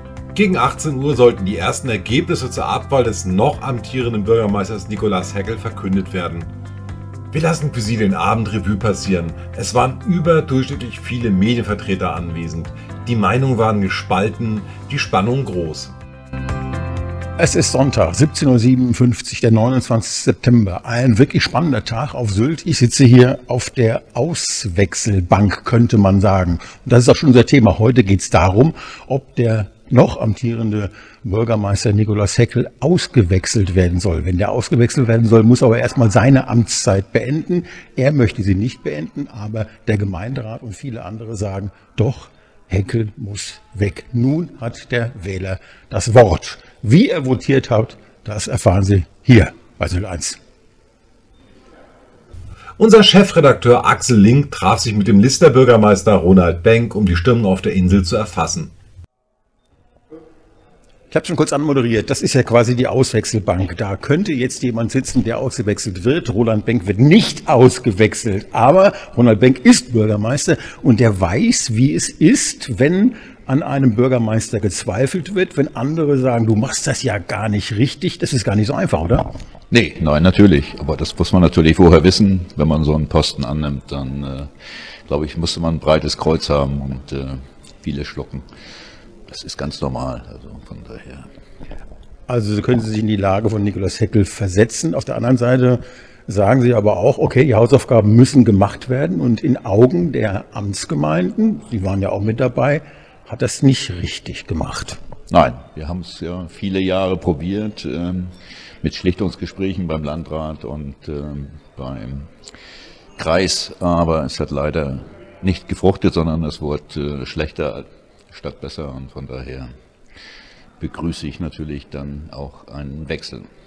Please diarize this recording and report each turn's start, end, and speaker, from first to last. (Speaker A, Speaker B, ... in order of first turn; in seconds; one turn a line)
Speaker A: 0.3-6.5
Speaker A: 7.3-15.9
Speaker B: 17.4-50.4
Speaker A: 52.8-58.7
Speaker B: 61.1-79.3
Speaker C: 79.7-84.5
Speaker C: 85.1-88.5
Speaker C: 89.3-91.3
Speaker B: 92.3-105.0
Speaker C: 105.3-112.3
Speaker C: 113.2-119.7
Speaker C: 120.8-123.5